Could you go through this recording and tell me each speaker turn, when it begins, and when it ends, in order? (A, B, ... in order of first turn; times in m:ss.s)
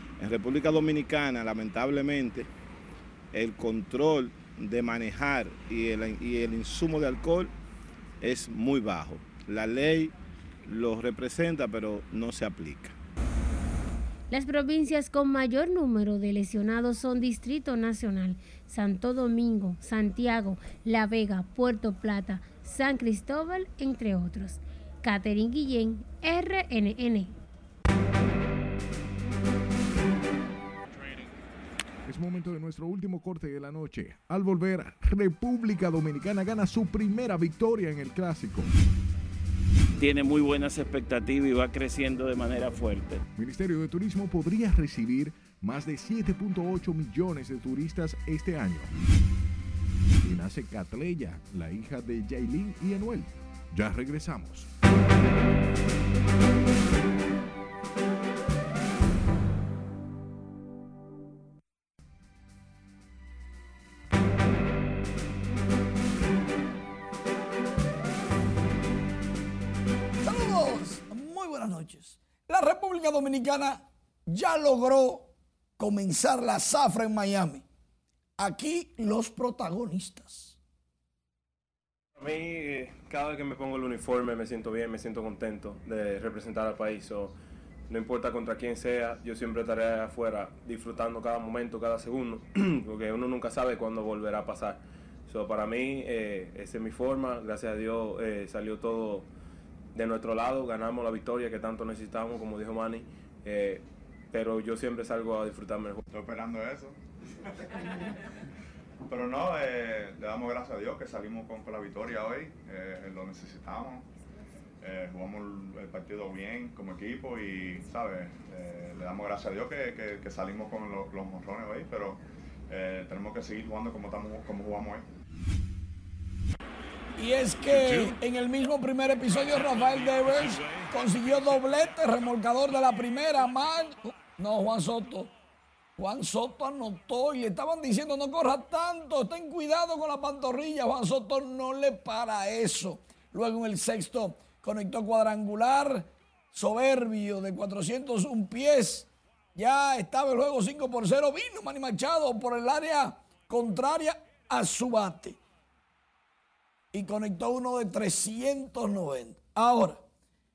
0:00.2-0:02.5 A
0:03.3-0:07.5 A
0:08.2-0:10.1 A
0:10.6-0:12.9 A
0:14.3-0:27.4 B
0:32.0-0:38.7 C
0:40.0-0:43.2 D
0:43.3-0:48.9 C
0:50.2-0:54.7 C
1:10.2-1:17.6 E
1:18.4-1:20.6 E
1:23.6-1:27.3 F
1:28.0-1:34.8 F
1:35.3-1:39.2 F
1:40.0-1:43.8 F
1:44.3-1:46.0 F
1:46.1-1:47.0 G
1:49.0-1:54.1 G
1:54.8-2:05.0 G
2:07.2-2:15.3 E
2:16.0-2:35.4 E
2:36.9-2:40.0 E